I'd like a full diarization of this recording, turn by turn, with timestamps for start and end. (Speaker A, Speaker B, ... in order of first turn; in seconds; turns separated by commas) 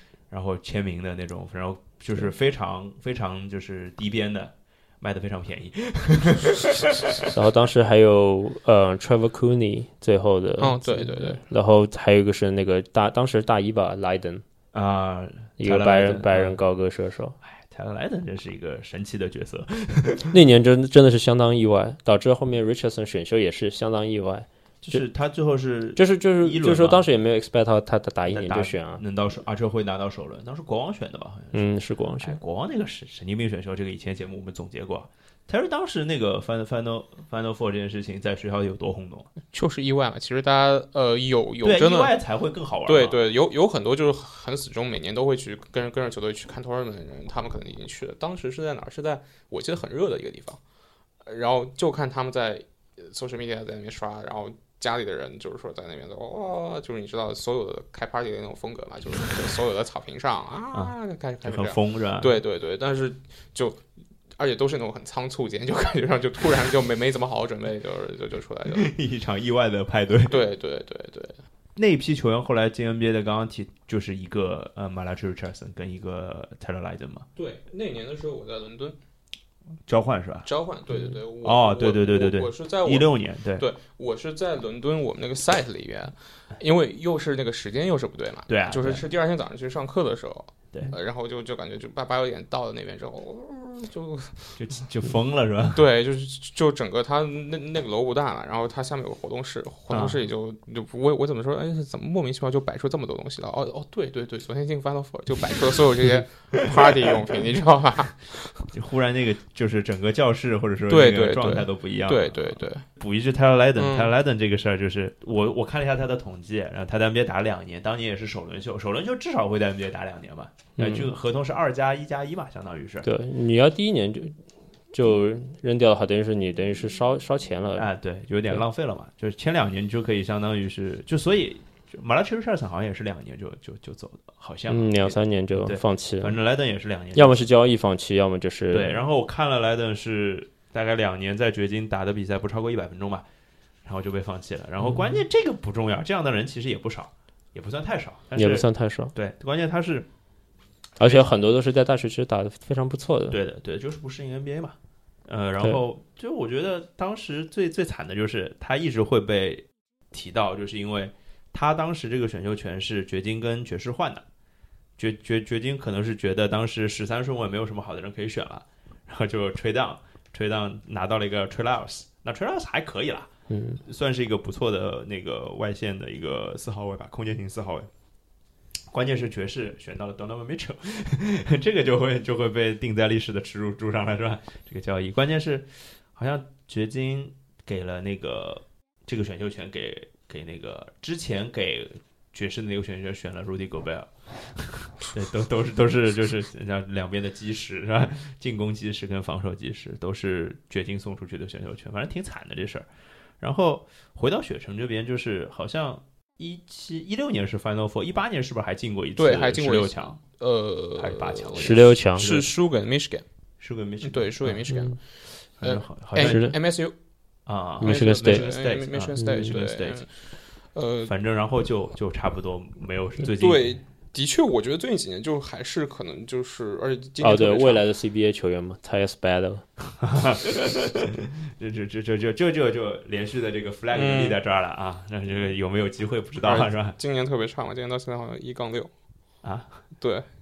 Speaker A: 0.3-7.3, Speaker B: 7.3-14.4, Speaker C: 10.6-11.4, Speaker A: 14.7-16.6, Speaker B: 15.6-17.4, Speaker A: 17.4-20.3, Speaker B: 20.3-25.0, Speaker A: 24.8-27.1, Speaker B: 26.0-29.0, Speaker A: 28.3-31.6, Speaker B: 31.5-32.4, Speaker A: 32.2-39.3, Speaker C: 39.5-42.2, Speaker A: 41.6-43.2, Speaker C: 42.9-50.6, Speaker C: 51.2-63.9, Speaker A: 60.7-62.4, Speaker C: 64.4-68.9, Speaker A: 68.7-70.4, Speaker C: 70.3-71.4, Speaker A: 71.8-77.3, Speaker C: 77.4-79.0, Speaker A: 79.9-80.5, Speaker C: 80.5-94.7, Speaker A: 81.4-83.7, Speaker A: 88.5-89.1, Speaker A: 94.6-95.9, Speaker C: 95.7-108.7, Speaker A: 99.9-100.3, Speaker A: 106.6-107.2, Speaker A: 108.7-123.1, Speaker C: 110.9-112.9, Speaker C: 113.8-114.1, Speaker B: 120.8-121.1, Speaker B: 123.0-124.4, Speaker B: 124.9-127.9, Speaker A: 127.8-137.4, Speaker B: 134.7-136.4, Speaker B: 137.1-139.0, Speaker A: 138.7-143.2, Speaker A: 143.8-150.1, Speaker B: 144.8-145.2, Speaker B: 148.4-149.1, Speaker B: 151.0-153.4, Speaker A: 151.0-151.3, Speaker A: 153.3-154.8, Speaker A: 155.3-164.3, Speaker A: 165.0-173.3, Speaker B: 173.5-173.8, Speaker A: 173.8-177.9, Speaker A: 178.9-202.9, Speaker A: 203.4-210.2, Speaker C: 209.2-213.2, Speaker A: 211.0-212.5, Speaker B: 211.6-212.3, Speaker A: 213.6-214.7, Speaker C: 214.0-215.0, Speaker B: 214.7-215.0, Speaker C: 215.6-216.9, Speaker A: 215.6-216.5, Speaker B: 216.2-216.6, Speaker A: 217.5-220.1, Speaker B: 217.8-218.5, Speaker C: 217.8-220.1, Speaker B: 219.2-219.6, Speaker C: 220.7-221.1, Speaker A: 221.1-223.8, Speaker C: 223.2-227.8, Speaker B: 227.2-229.7, Speaker A: 230.0-237.0, Speaker C: 233.9-234.4, Speaker C: 236.4-238.9, Speaker A: 239.4-239.8, Speaker C: 240.0-240.3